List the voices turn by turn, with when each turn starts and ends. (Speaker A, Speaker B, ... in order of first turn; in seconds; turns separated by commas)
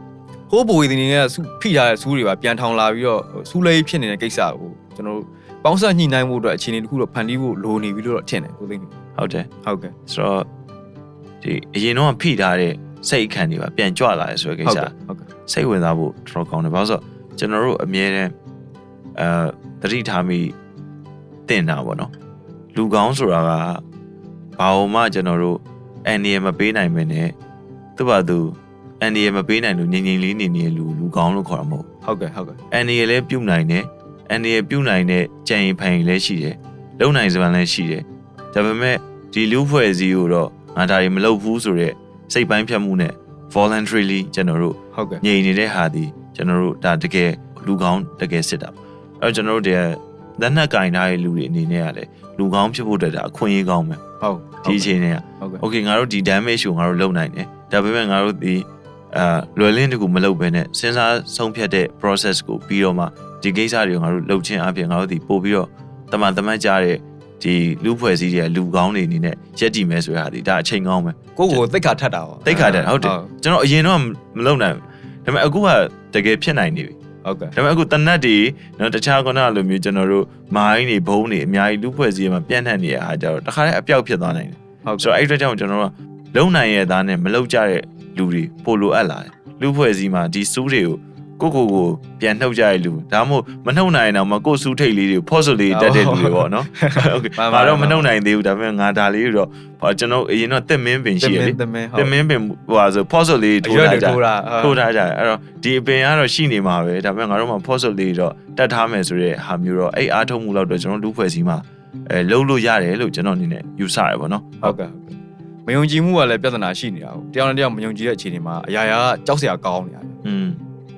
Speaker A: 0.5-8.9, Speaker B: 9.2-9.5, Speaker A: 9.7-9.9, Speaker B: 10.1-10.5, Speaker B: 11.4-14.9, Speaker A: 14.7-15.2, Speaker B: 15.5-18.3, Speaker B: 19.1-20.6, Speaker B: 21.5-22.1, Speaker B: 22.7-23.8, Speaker B: 24.6-27.4, Speaker B: 28.0-31.9, Speaker A: 32.0-32.6, Speaker B: 32.7-54.0, Speaker A: 44.9-45.2, Speaker A: 54.2-55.6, Speaker B: 54.6-71.6, Speaker A: 71.4-73.3, Speaker B: 72.5-77.0, Speaker A: 77.2-77.5, Speaker B: 77.5-114.8, Speaker A: 84.8-85.1, Speaker A: 95.7-98.1, Speaker A: 101.2-102.1, Speaker A: 103.6-104.8, Speaker A: 114.6-120.2, Speaker B: 120.2-120.6